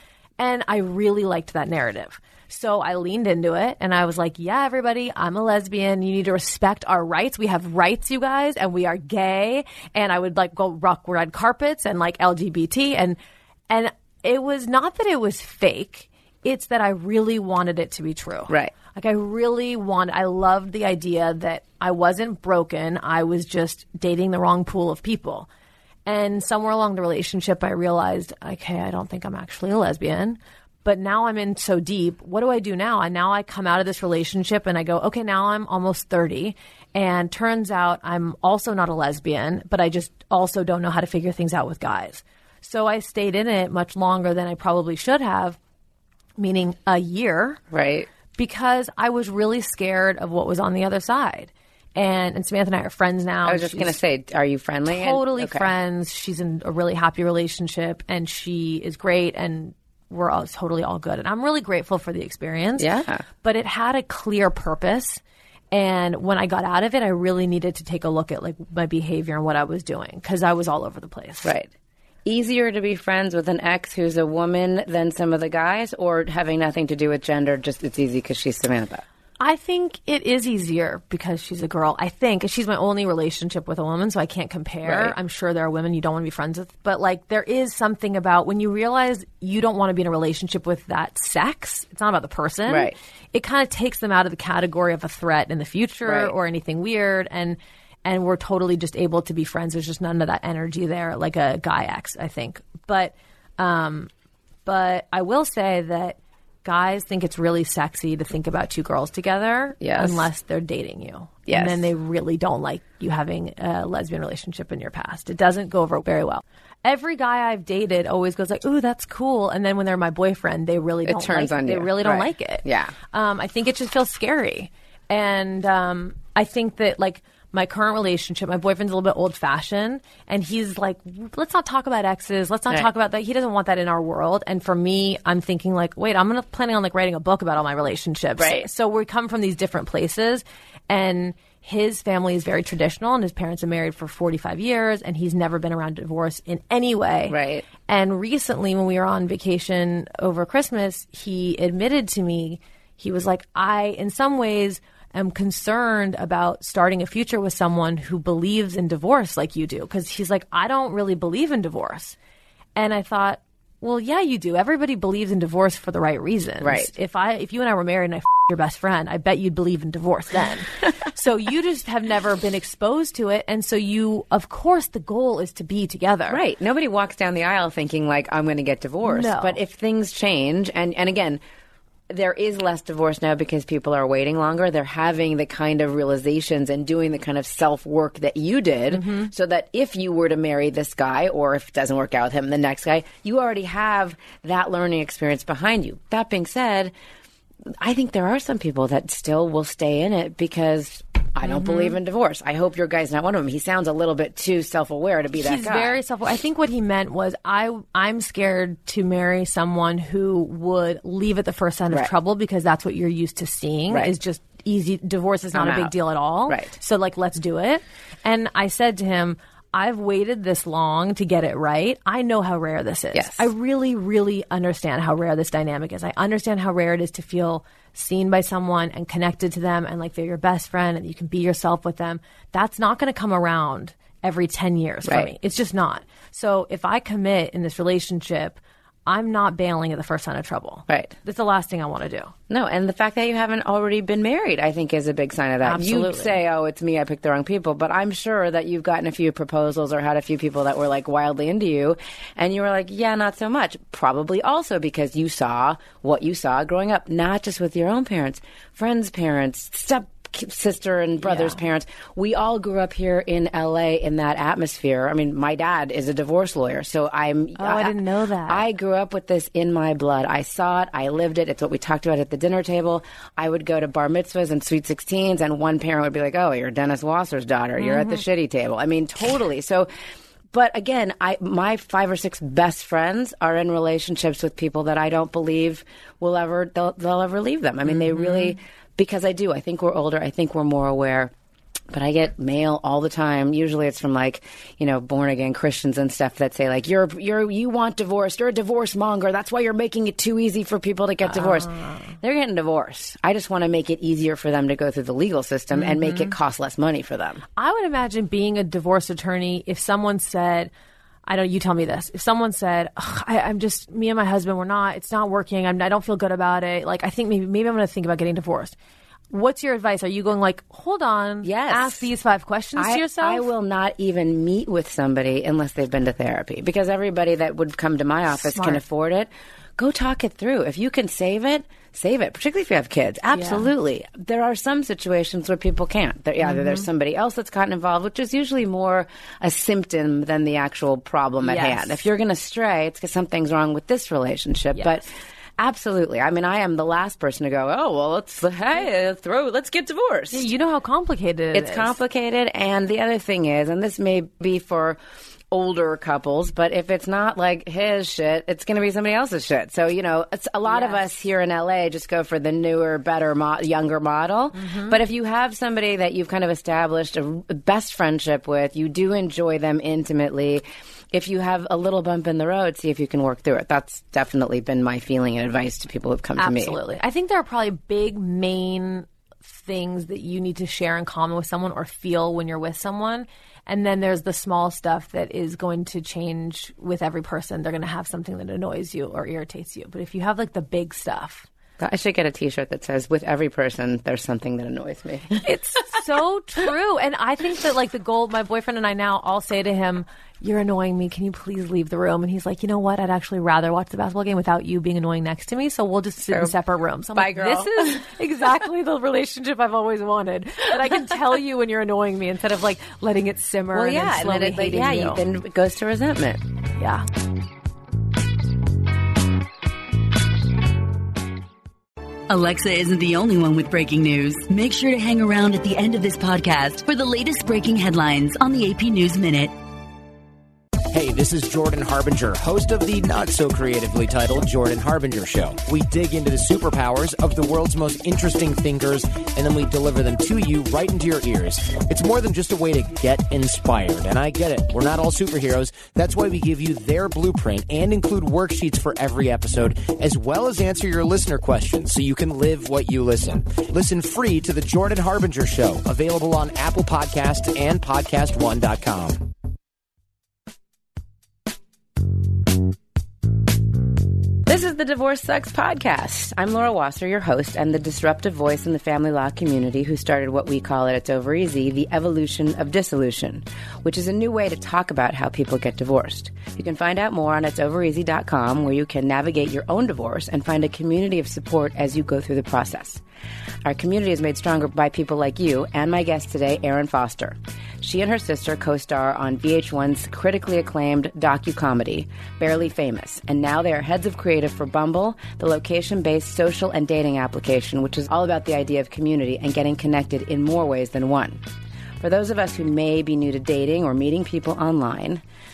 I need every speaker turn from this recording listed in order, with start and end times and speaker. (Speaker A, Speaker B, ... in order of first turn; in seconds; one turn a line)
Speaker A: 0.4-13.2
Speaker A: 13.7-25.5
Speaker A: 26.1-45.6
Speaker A: 46.4-47.6
Speaker B: 47.7-48.1
Speaker A: 48.4-54.0
Speaker B: 53.5-55.7
Speaker A: 54.9-62.9
Speaker B: 62.8-63.2
Speaker A: 63.4-65.2
Speaker A: 65.7-71.5
Speaker B: 71.4-71.7
Speaker B: 72.2-79.0
Speaker A: 79.4-104.1
Speaker B: 84.8-85.1
Speaker B: 92.7-93.0
Speaker B: 96.1-96.3
Speaker A: 104.7-162.2
Speaker B: 109.8-110.3
Speaker B: 111.5-111.9
Speaker B: 121.0-122.9
Speaker B: 138.4-138.7
Speaker B: 147.3-147.7
Speaker A: 162.8-176.4
Speaker B: 166.6-166.9
Speaker B: 176.3-181.4
Speaker A: 179.0-179.6
Speaker B: 182.1-196.9
Speaker A: 188.9-189.3
Speaker B: 197.8-206.0
Speaker A: 201.4-202.0
Speaker A: 205.4-242.3
Speaker B: 215.5-215.9
Speaker B: 216.5-216.7
Speaker B: 223.1-223.5
Speaker B: 235.1-235.3
Speaker B: 242.5-279.9
Speaker A: 245.6-246.4
Speaker A: 261.2-261.6
Speaker A: 267.6-268.6
Speaker A: 277.8-278.2
Speaker B: 280.5-291.3
Speaker A: 287.9-288.6
Speaker B: 291.9-307.4
Speaker A: 301.3-302.1
Speaker A: 305.7-306.3
Speaker A: 307.6-310.7
Speaker A: 311.3-318.8
Speaker A: 319.3-323.5
Speaker B: 321.4-322.1
Speaker B: 322.8-345.1
Speaker A: 328.3-328.8
Speaker A: 333.3-333.7
Speaker A: 336.4-336.9
Speaker A: 341.4-342.1
Speaker B: 345.6-350.5
Speaker A: 350.3-352.0
Speaker B: 351.5-355.0
Speaker B: 355.5-376.8
Speaker A: 360.7-361.0
Speaker A: 364.6-365.0
Speaker A: 376.4-391.5
Speaker B: 391.8-395.4
Speaker A: 395.4-415.2
Speaker B: 407.1-408.0
Speaker B: 413.7-416.4
Speaker A: 416.8-417.1
Speaker C: 422.3-429.5
Speaker D: 430.9-459.2
Speaker B: 464.4-483.0
Speaker B: 483.6-501.4
Speaker B: 502.0-505.2